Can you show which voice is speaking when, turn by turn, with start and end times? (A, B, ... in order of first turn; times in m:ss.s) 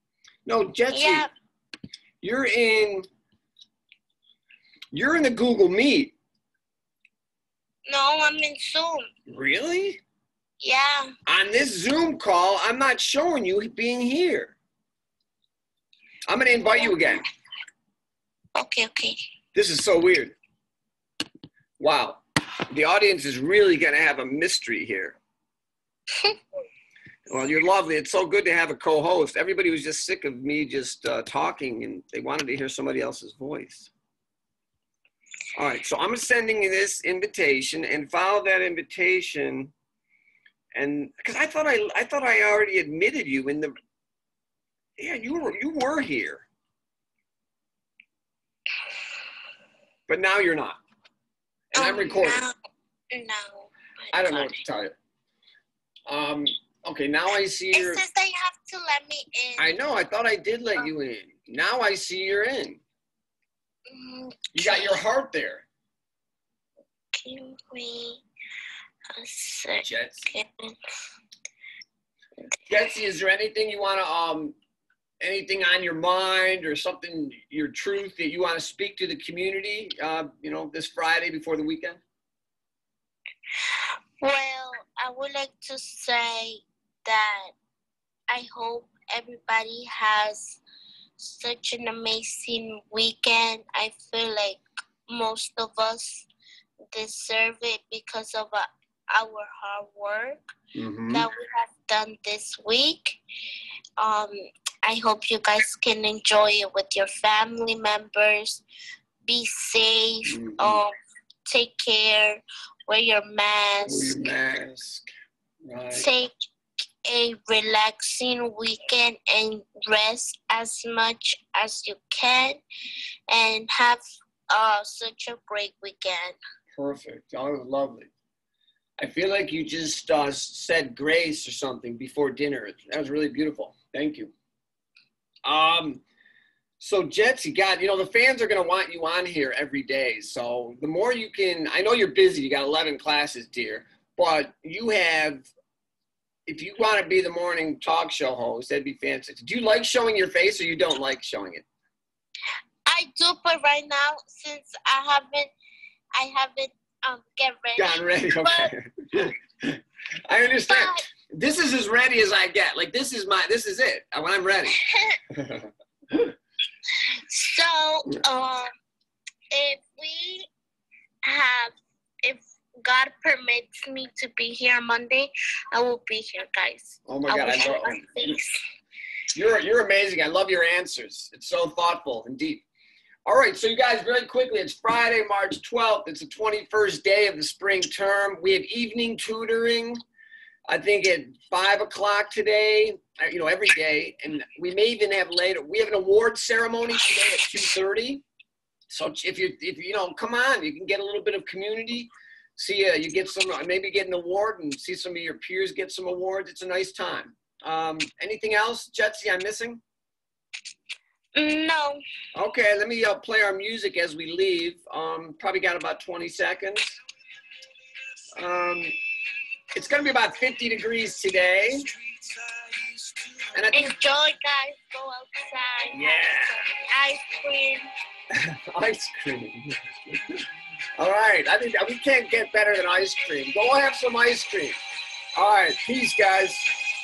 0:00.4-0:01.3 A
0:00.9-0:01.3 B
0:02.2-0:03.1 A
0:04.9-0:06.1 A
0:07.9-0:09.1 B
0:09.3-0:10.0 A
0:10.6-0:11.1 B
0:11.3-0:14.6 A
0:16.3-0:17.2 A
0:16.7-0:17.2 B
0:18.5-0:19.2 B
0:19.5-0:20.3 A
0:21.8-0:25.2 A
0:27.3-0:33.9 A
0:35.6-0:39.7 A
0:40.7-0:43.7 A
0:45.0-0:46.5 A
0:50.1-0:50.8 A
0:51.7-0:52.4 A
0:51.8-0:52.5 B
0:53.1-0:54.6 B
0:54.1-0:55.0 A
0:56.1-0:58.0 A
0:57.7-0:59.7 B
0:59.6-1:02.8 A
1:03.9-1:05.0 B
1:04.5-1:05.6 A
1:07.1-1:08.2 B
1:09.1-1:10.8 B
1:09.8-1:10.3 A
1:12.7-1:14.6 A
1:15.2-1:22.0 A
1:23.7-1:27.5 B
1:28.3-1:30.6 B
1:31.2-1:36.3 B
1:36.9-1:40.4 B
1:40.7-1:41.3 A
1:41.1-1:43.2 B
1:44.0-1:48.6 B
1:49.2-1:50.9 B
1:50.3-1:50.8 A
1:51.5-1:54.3 B
1:53.9-1:55.1 A
1:55.6-1:56.1 A
1:55.9-1:56.3 B
1:57.0-2:02.6 B
2:03.3-2:06.4 B
2:06.7-2:08.1 A
2:09.0-2:14.3 A
2:15.4-2:16.0 A
2:16.8-2:25.5 A
2:26.5-2:31.6 A
2:32.9-2:35.5 B
2:36.2-2:38.7 B
2:37.8-2:44.8 A
2:40.7-2:41.0 B
2:44.7-2:45.2 B
2:45.3-2:46.3 A
2:46.9-2:48.7 B
2:49.5-2:50.5 B
2:51.2-2:58.6 B
2:57.1-2:58.3 A
2:59.3-3:02.6 A
3:03.2-3:10.0 A
3:10.7-3:18.2 A
3:18.9-3:29.8 A
3:31.4-3:32.0 B
3:32.3-3:37.0 A
3:38.3-3:38.9 A
3:39.7-3:41.9 A
3:43.5-3:43.9 A
3:43.7-3:47.9 B
3:45.9-3:46.6 A
3:48.3-3:50.2 A
3:51.0-3:54.8 A
3:55.4-3:56.7 A